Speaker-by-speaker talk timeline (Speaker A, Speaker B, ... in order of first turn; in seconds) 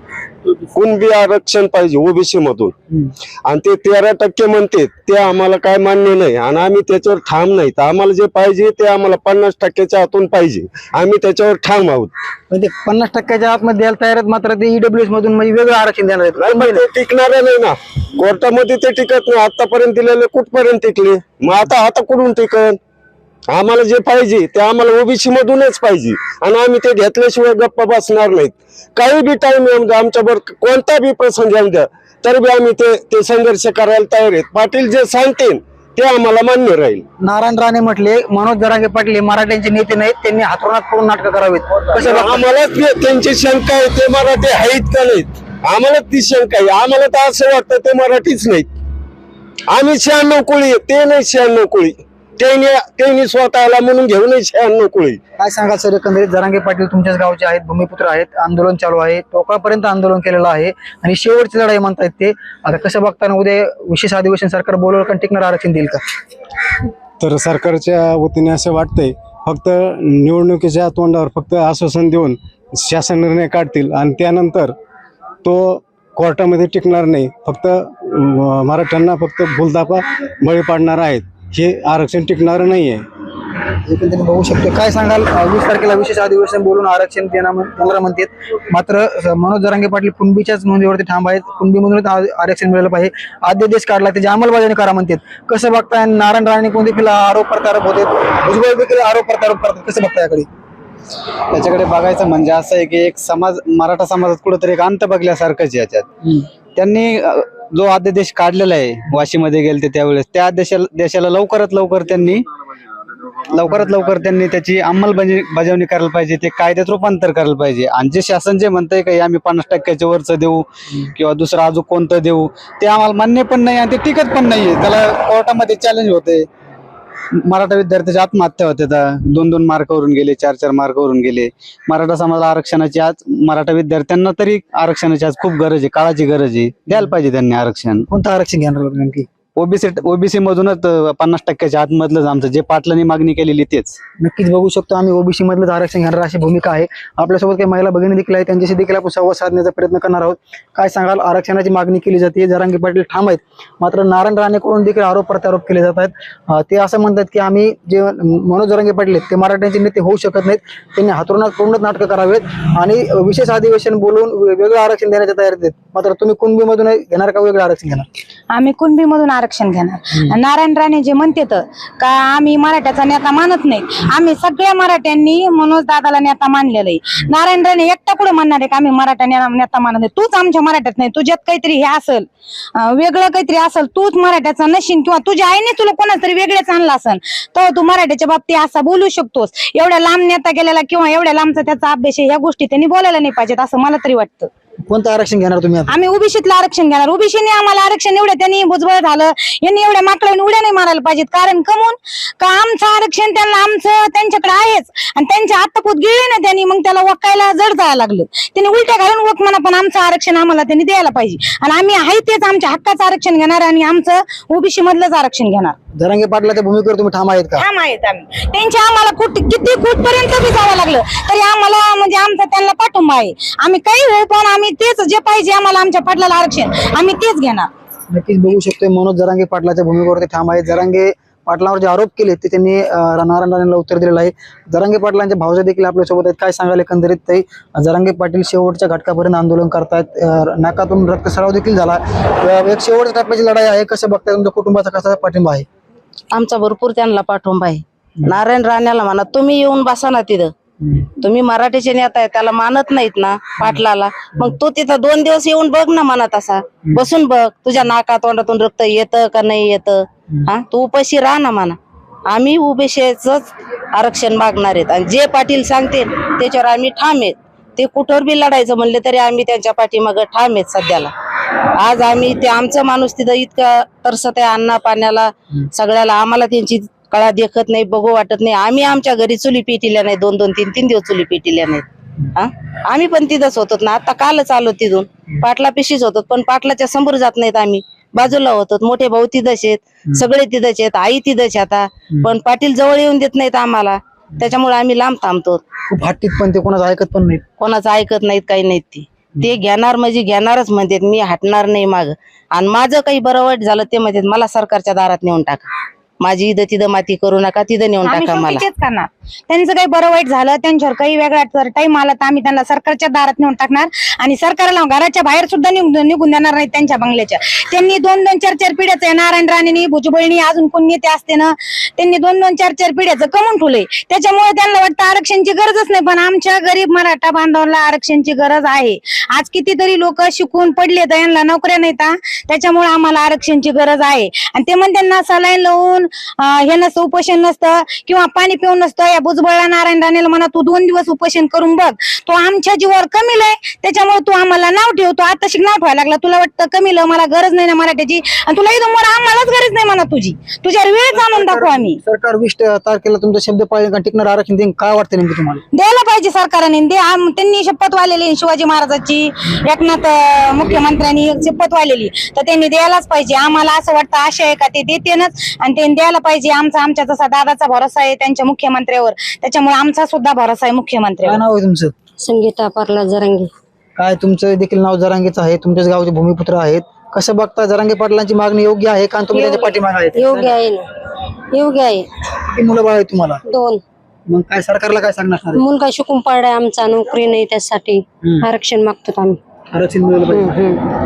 Speaker A: 0.7-2.7, 3.5-12.1, 16.4-22.8, 23.5-37.0, 41.9-48.7, 49.7-55.2
Speaker B: 12.5-16.9, 37.2-42.5, 55.4-66.0, 83.8-100.5, 138.1-139.3, 144.2-168.1, 194.9-195.9, 216.0-217.7, 228.1-245.7, 295.9-297.4, 351.2-355.6, 371.2-371.9, 374.0-380.6, 382.4-383.4, 384.3-385.6, 389.7-390.7
Speaker C: 67.2-74.7, 75.4-83.0
Speaker D: 101.5-112.5, 113.5-126.5, 127.4-138.1, 139.6-144.0
Speaker E: 168.5-194.5, 195.9-215.8, 217.6-227.7, 308.1-352.0, 355.7-371.4
Speaker F: 246.3-250.5, 251.2-261.8, 262.3-271.1, 271.8-295.6, 297.6-305.7, 306.2-308.6
Speaker G: 372.2-373.5, 379.4-379.6, 380.1-380.9, 381.5-382.1, 383.4-383.8, 385.5-389.4, 390.3-390.8